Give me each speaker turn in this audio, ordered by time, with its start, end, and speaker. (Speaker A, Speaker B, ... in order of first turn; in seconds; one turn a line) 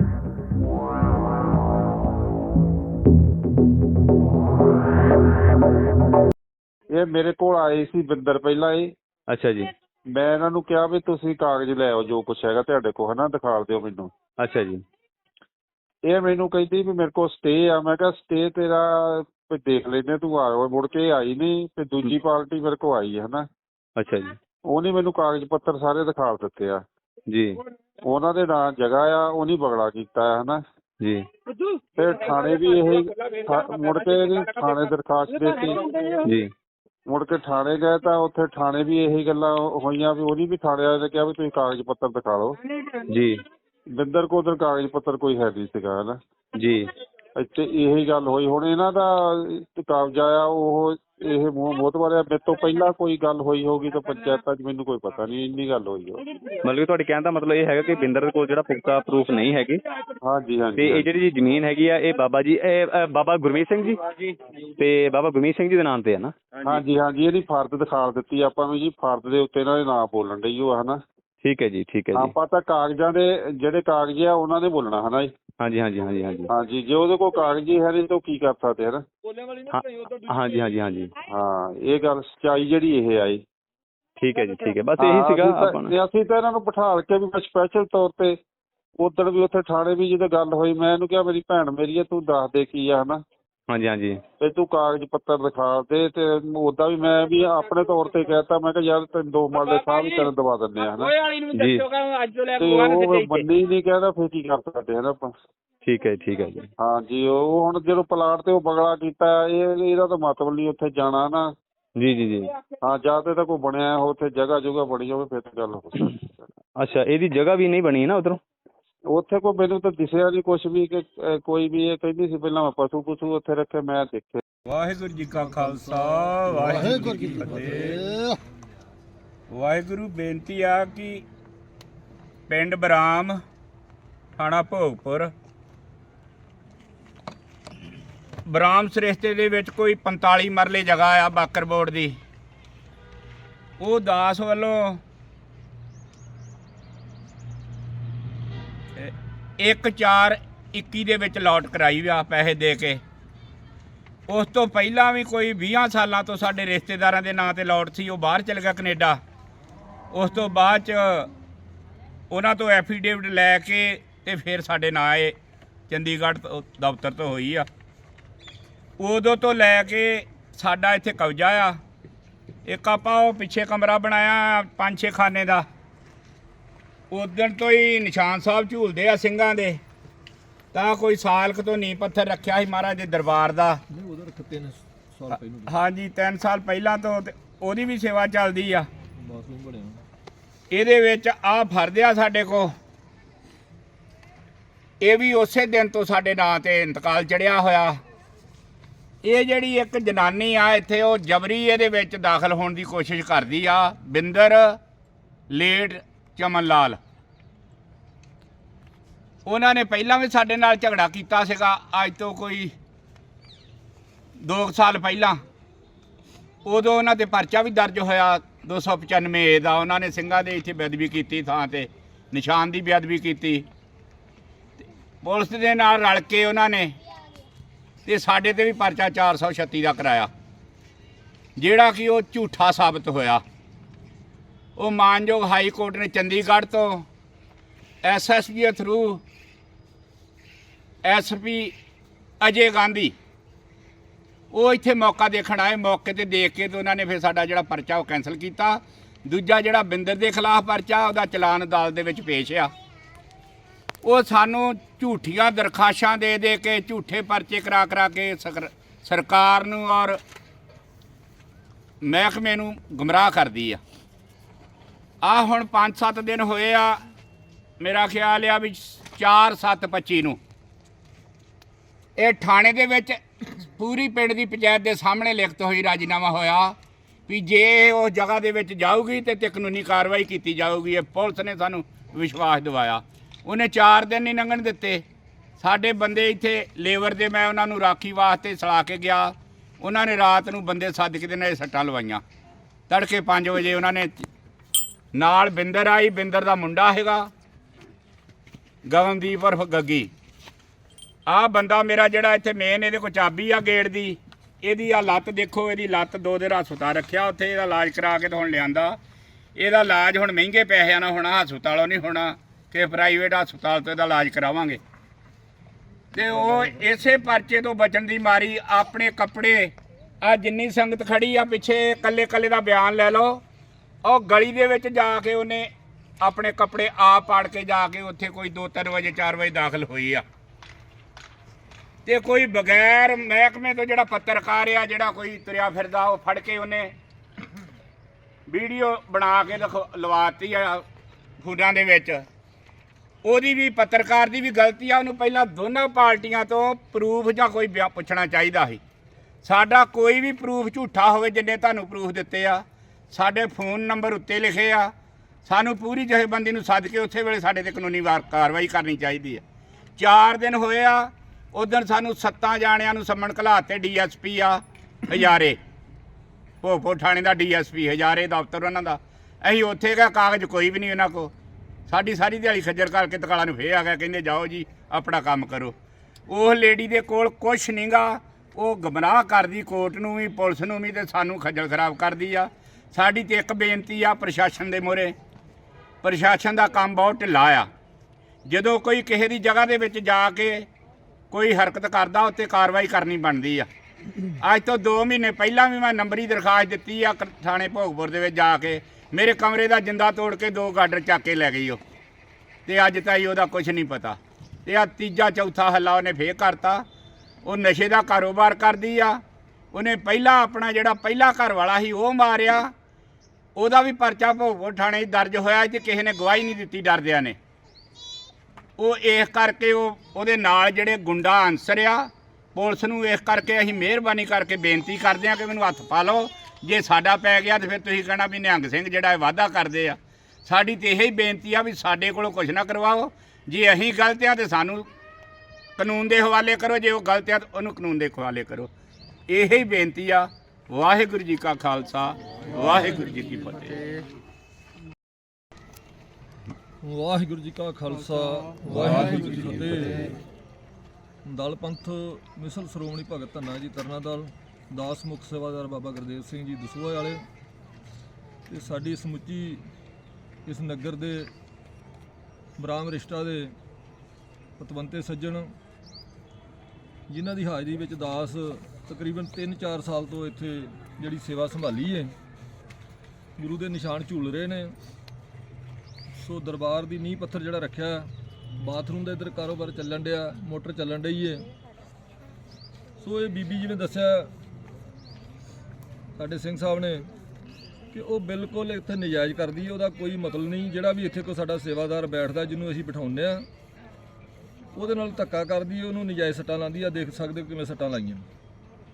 Speaker A: 6.9-8.9
Speaker B: 9.3-9.7
Speaker A: 10.1-14.1
Speaker B: 14.4-14.8
Speaker A: 16.1-23.4
Speaker B: 24.0-24.4
Speaker A: 24.7-26.8
Speaker B: 27.3-27.6
Speaker A: 28.1-30.6
Speaker B: 31.0-31.3
Speaker A: 31.9-36.0
Speaker B: 36.2-36.5
Speaker A: 37.1-42.6
Speaker B: 43.1-43.4
Speaker A: 44.0-46.2
Speaker B: 46.5-46.9
Speaker A: 47.4-56.2
Speaker B: 56.5-59.8
Speaker A: 60.2-61.2
Speaker B: 60.8-66.3
Speaker A: 66.6-71.0
Speaker B: 71.4-72.3
Speaker A: 72.1-75.3
Speaker B: 75.6-76.5
Speaker A: 76.5-79.0
Speaker B: 79.7-81.1
Speaker A: 81.3-83.4
Speaker B: 84.2-85.9
Speaker A: 85.0-88.3
Speaker A: 89.0-93.2
Speaker B: 93.7-94.2
Speaker A: 94.4-101.1
Speaker C: 101.1-103.3
Speaker B: 101.5-101.8
Speaker A: 102.6-105.3
Speaker B: 105.8-106.7
Speaker A: 106.8-111.5
Speaker B: 112.0-112.5
Speaker A: 112.7-116.5
Speaker B: 116.8-118.4
Speaker A: 119.1-124.4
Speaker C: 124.7-128.1
Speaker C: 129.5-131.2
Speaker C: 132.5-133.4
Speaker C: 134.4-135.3
Speaker C: 138.4-142.2
Speaker C: 143.8-145.0
Speaker C: 149.0-153.0
Speaker C: 154.3-159.2
Speaker C: 160.1-161.3
Speaker C: 162.3-165.3
Speaker C: 165.9-167.7
Speaker C: 169.0-171.8
Speaker C: 172.7-175.6
Speaker C: 177.1-179.8
Speaker C: 180.7-183.8
Speaker D: 183.9-185.7
Speaker C: 185.7-188.9
Speaker D: 189.2-190.0
Speaker C: 190.7-192.7
Speaker C: 195.0-198.0
Speaker C: 199.2-204.8
Speaker C: 205.5-207.0
Speaker C: 209.4-212.7
Speaker C: 214.4-215.4
Speaker C: 216.6-223.6
Speaker C: 225.2-226.9
Speaker C: 228.1-230.3
Speaker C: 231.6-233.4
Speaker C: 234.8-237.1
Speaker C: 238.0-239.2
Speaker C: 241.0-241.7
Speaker C: 242.4-243.1
Speaker C: 244.5-252.7
Speaker C: 254.0-260.2
Speaker C: 262.0-263.8
Speaker C: 265.2-267.0
Speaker C: 267.8-270.4
Speaker C: 272.2-276.7
Speaker C: 277.3-285.0
Speaker C: 285.6-292.2
Speaker C: 292.9-294.2
Speaker C: 295.1-297.3
Speaker C: 298.9-300.1
Speaker C: 301.3-309.0
Speaker C: 309.6-314.8
Speaker C: 316.1-323.4
Speaker C: 324.0-325.7
Speaker C: 326.2-330.2
Speaker C: 332.1-336.9
Speaker C: 338.5-340.8
Speaker C: 341.4-342.2
Speaker C: 343.2-348.8
Speaker C: 349.4-354.9
Speaker C: 355.4-359.4
Speaker C: 360.0-365.6
Speaker C: 366.6-371.3
Speaker C: 371.9-375.7
Speaker C: 376.3-385.1
Speaker C: 386.0-387.7
Speaker C: 388.5-390.7
Speaker C: 391.3-393.7
Speaker C: 394.4-401.8
Speaker C: 402.7-406.8
Speaker C: 407.4-409.2
Speaker C: 409.7-412.7
Speaker C: 413.6-417.4
Speaker C: 418.8-434.9
Speaker C: 435.8-438.7
Speaker C: 439.3-443.8
Speaker D: 446.8-450.1
Speaker D: 451.2-457.2
Speaker D: 458.4-459.6
Speaker D: 460.4-461.3
Speaker D: 462.6-463.5
Speaker D: 464.6-465.5
Speaker D: 467.1-472.1
Speaker D: 473.4-474.7
Speaker D: 476.1-481.5
Speaker D: 483.0-484.3
Speaker D: 486.2-487.1
Speaker D: 487.9-493.4
Speaker D: 494.7-498.3